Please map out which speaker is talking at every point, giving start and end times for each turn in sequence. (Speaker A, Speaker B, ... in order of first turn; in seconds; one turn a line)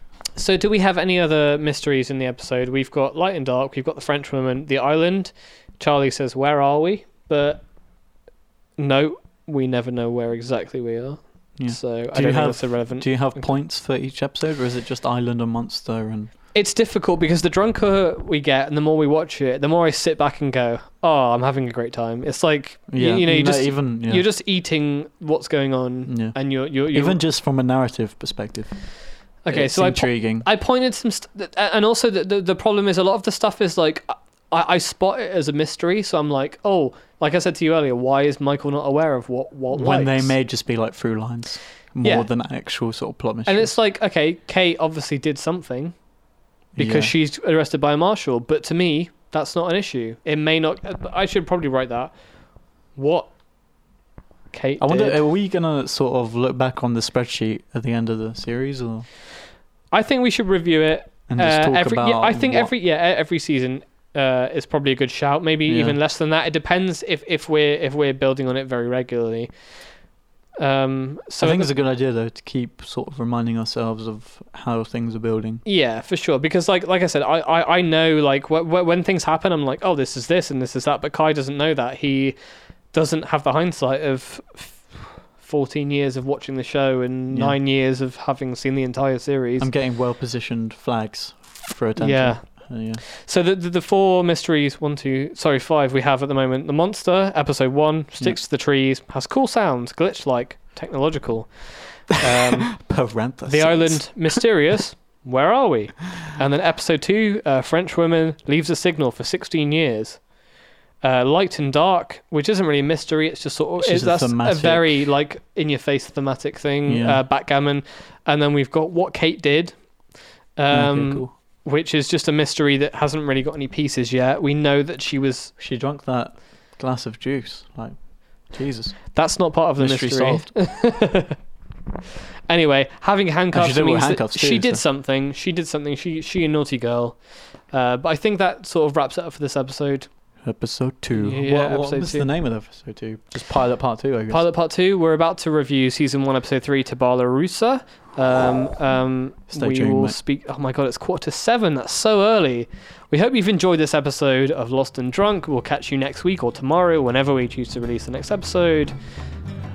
Speaker A: 0.3-7.6
Speaker A: 8.8-13.5
Speaker B: 11.6-16.3
Speaker A: 16.5-27.2
Speaker B: 22.9-24.2
Speaker B: 26.1-28.9
Speaker A: 29.4-40.4
Speaker B: 29.5-30.5
Speaker B: 39.7-43.8
Speaker A: 42.0-42.3
Speaker A: 43.5-46.0
Speaker A: 46.7-52.2
Speaker B: 46.8-47.1
Speaker A: 52.9-53.3
Speaker A: 54.5-55.2
Speaker B: 54.8-59.1
Speaker A: 59.9-69.7
Speaker B: 61.3-62.7
Speaker B: 65.7-66.0
Speaker A: 70.6-71.7
Speaker B: 71.4-75.6
Speaker A: 75.6-82.4
Speaker A: 82.9-89.7
Speaker B: 87.3-87.6
Speaker B: 89.6-93.0
Speaker A: 92.0-102.8
Speaker B: 102.3-104.4
Speaker A: 103.5-110.3
Speaker A: 111.0-125.5
Speaker B: 113.8-115.1
Speaker B: 116.9-117.2
Speaker B: 120.7-121.3
Speaker B: 125.6-129.2
Speaker A: 129.1-131.4
Speaker B: 129.8-130.5
Speaker A: 132.5-140.1
Speaker B: 133.5-134.8
Speaker B: 140.4-144.5
Speaker A: 141.1-142.3
Speaker A: 144.3-158.9
Speaker B: 149.5-150.2